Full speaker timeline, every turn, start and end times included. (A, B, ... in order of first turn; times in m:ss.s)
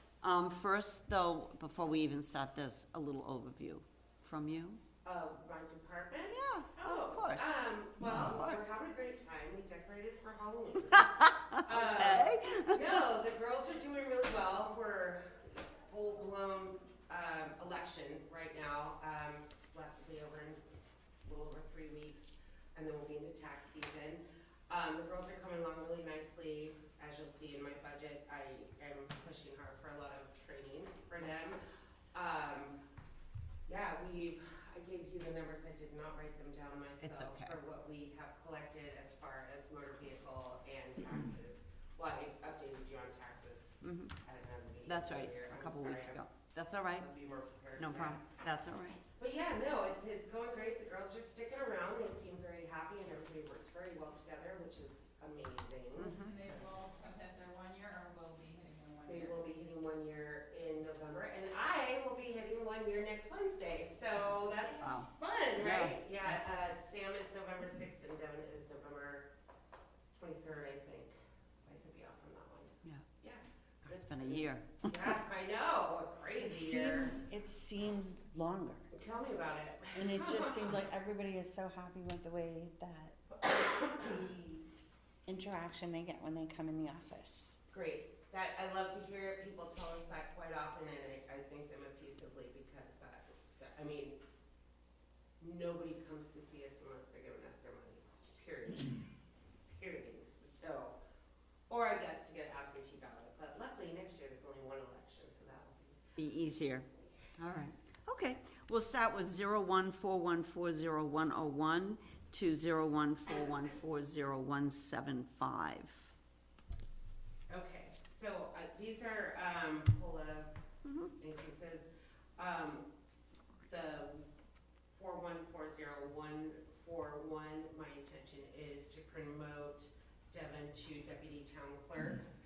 0:00.2-0:04.8 A
0:05.0-0:20.6 B
0:06.3-0:08.7 A
0:10.9-0:13.0 A
0:21.2-0:31.6 B
0:32.1-0:32.8 B
0:33.7-0:46.2 B
0:37.0-0:37.6 A
0:43.8-0:44.2 A
0:44.8-0:47.1 A
0:46.9-0:48.2 B
0:47.8-0:49.0 A
0:49.2-0:56.8 B
0:56.0-0:56.4 A
0:56.2-0:59.6 C
0:59.0-1:09.3 B
1:04.8-1:06.5 A
1:10.2-1:11.1 B
1:11.6-1:17.2 B
1:13.8-1:15.2 A
1:16.4-1:18.9 D
1:18.9-1:20.8 B
1:20.0-1:24.6 D
1:23.5-1:24.0 B
1:25.3-1:27.6 D
1:27.7-1:34.2 B
1:35.4-1:39.0 B
1:39.7-1:41.0 B
1:41.7-1:46.0 B
1:46.2-1:56.1 A
1:57.5-2:00.5 B
2:00.8-2:01.1 A
2:01.2-2:02.9 B
2:03.6-2:04.3 B
2:04.9-2:12.2 B